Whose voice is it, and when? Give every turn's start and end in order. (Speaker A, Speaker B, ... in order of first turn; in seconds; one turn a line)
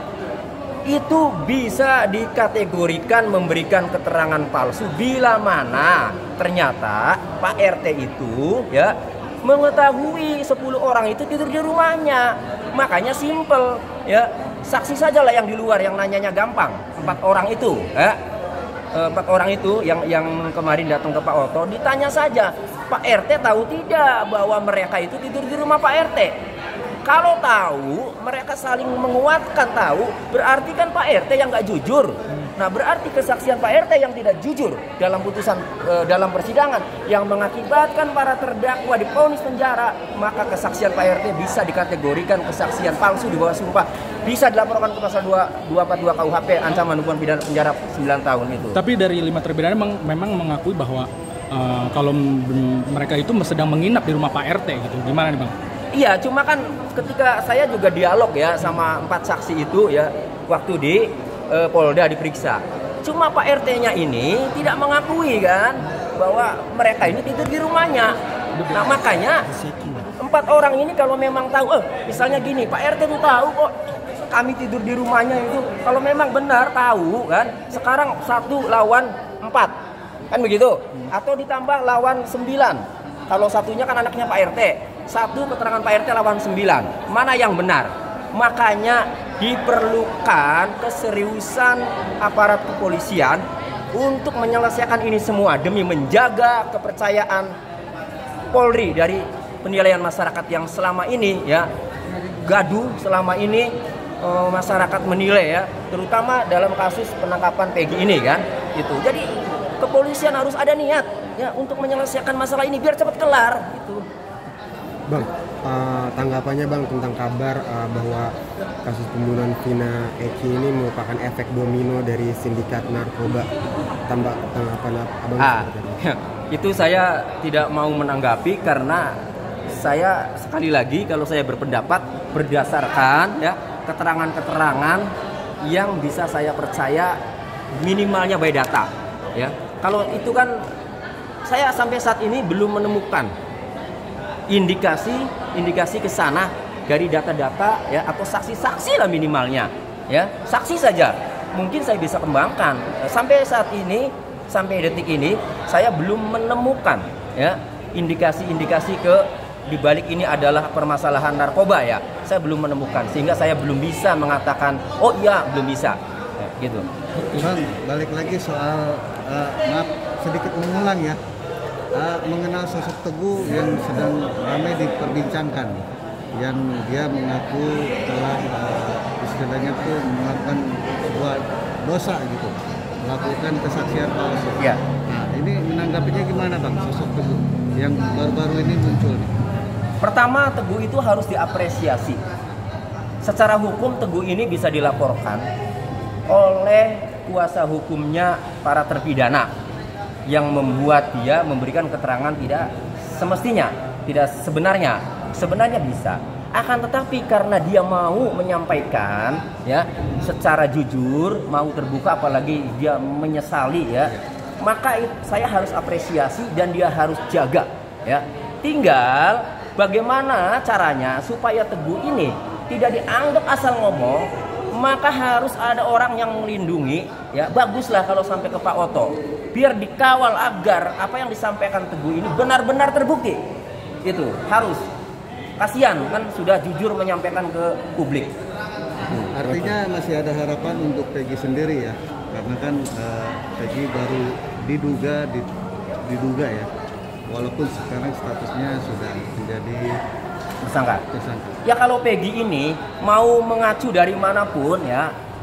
Speaker A: 0.9-18.2
Speaker A: 18.9-26.3
Speaker A: 27.0-48.8
Speaker B: 48.7-55.5
Speaker A: 55.9-68.2
Speaker A: 68.7-69.5
Speaker A: 70.1-73.8
Speaker A: 74.3-79.7
Speaker A: 80.3-97.5
Speaker A: 98.5-101.7
Speaker A: 102.3-114.0
Speaker C: 115.1-118.3
Speaker C: 118.8-123.5
Speaker C: 124.1-126.0
Speaker A: 125.4-129.2
Speaker A: 129.7-135.1
Speaker A: 135.6-137.2
Speaker A: 137.7-140.7
Speaker A: 141.4-143.3
Speaker A: 144.5-166.8
Speaker B: 167.2-167.4
Speaker D: 167.3-171.2
Speaker D: 171.9-189.3
Speaker A: 190.0-192.2
Speaker A: 193.2-195.5
Speaker A: 196.3-199.5
Speaker A: 200.3-233.4
Speaker A: 234.0-234.8
Speaker A: 235.6-238.3
Speaker D: 239.1-245.5
Speaker D: 246.0-246.7
Speaker D: 247.3-250.0
Speaker A: 250.6-251.0
Speaker D: 251.1-251.6
Speaker A: 251.6-255.1